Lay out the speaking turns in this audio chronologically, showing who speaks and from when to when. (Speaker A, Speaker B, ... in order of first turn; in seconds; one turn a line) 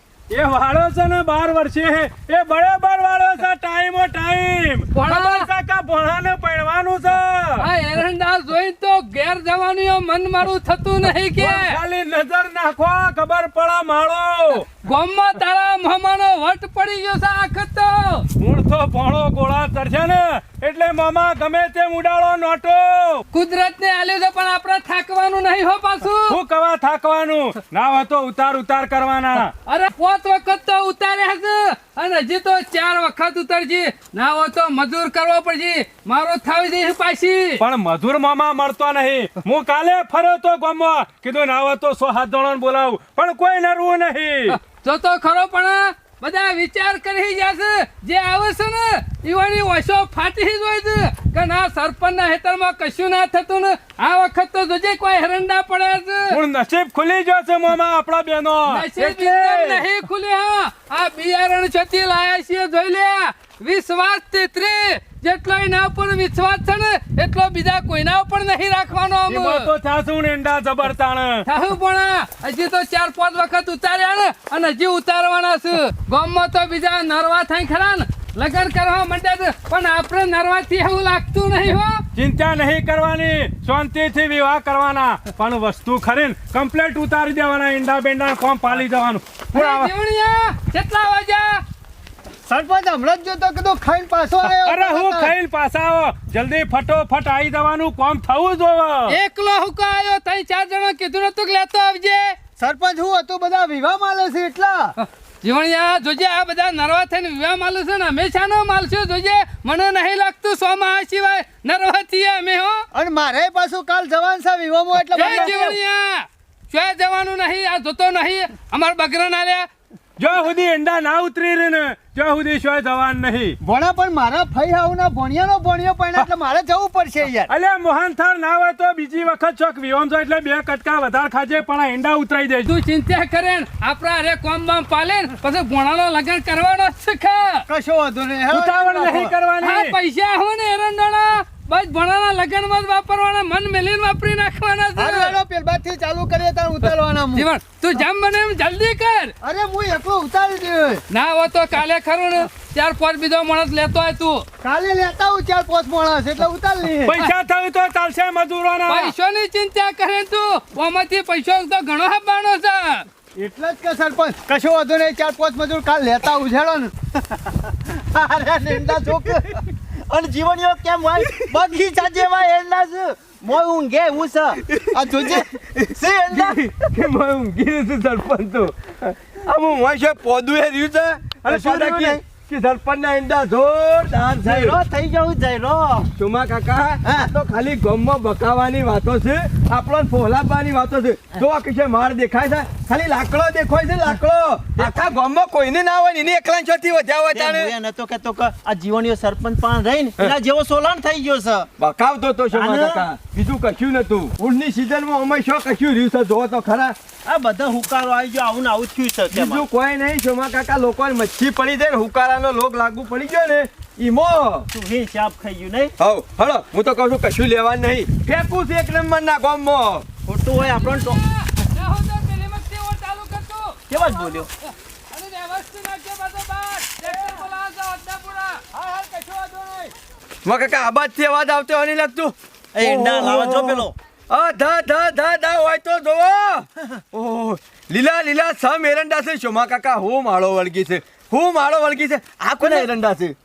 Speaker A: 0.3-7.7
Speaker B: 4.9-5.5
Speaker B: 7.6-11.8
Speaker A: 11.4-14.7
Speaker B: 14.8-18.3
Speaker A: 18.4-23.2
Speaker B: 23.3-26.4
Speaker A: 26.3-29.5
Speaker B: 29.6-37.6
Speaker A: 37.6-44.6
Speaker B: 44.5-56.4
Speaker A: 56.3-59.9
Speaker B: 58.7-69.7
Speaker A: 69.3-71.5
Speaker B: 71.5-82.0
Speaker A: 82.2-89.9
Speaker B: 89.5-91.6
Speaker C: 92.5-95.3
Speaker A: 94.4-99.2
Speaker B: 99.1-102.3
Speaker C: 102.6-104.9
Speaker B: 105.0-112.8
Speaker C: 112.9-115.8
Speaker A: 115.1-115.5
Speaker B: 115.1-119.7
Speaker A: 120.2-123.6
Speaker C: 123.6-127.5
Speaker A: 127.5-132.7
Speaker B: 132.7-137.7
Speaker C: 137.7-139.3
Speaker A: 138.5-140.0
Speaker B: 139.6-145.4
Speaker C: 145.0-147.5
Speaker B: 147.3-149.3
Speaker C: 149.4-151.0
Speaker B: 151.1-154.4
Speaker C: 154.6-157.2
Speaker A: 157.0-159.1
Speaker B: 158.9-163.1
Speaker C: 163.4-166.9
Speaker D: 168.2-176.7
Speaker C: 168.4-169.4
Speaker E: 174.7-175.4
Speaker C: 174.9-175.4
Speaker E: 176.3-184.8
Speaker D: 181.4-182.2
Speaker D: 184.4-186.1
Speaker E: 186.2-197.7
Speaker D: 197.3-201.7
Speaker E: 201.8-206.9
Speaker D: 202.5-203.1
Speaker D: 207.3-209.7
Speaker E: 209.3-214.7
Speaker D: 214.7-215.9
Speaker E: 216.0-220.1
Speaker D: 220.3-221.2
Speaker B: 220.6-223.8
Speaker D: 223.9-224.5
Speaker B: 224.7-228.6
Speaker C: 228.7-229.9
Speaker E: 230.4-243.3
Speaker D: 232.8-233.9
Speaker D: 242.6-242.9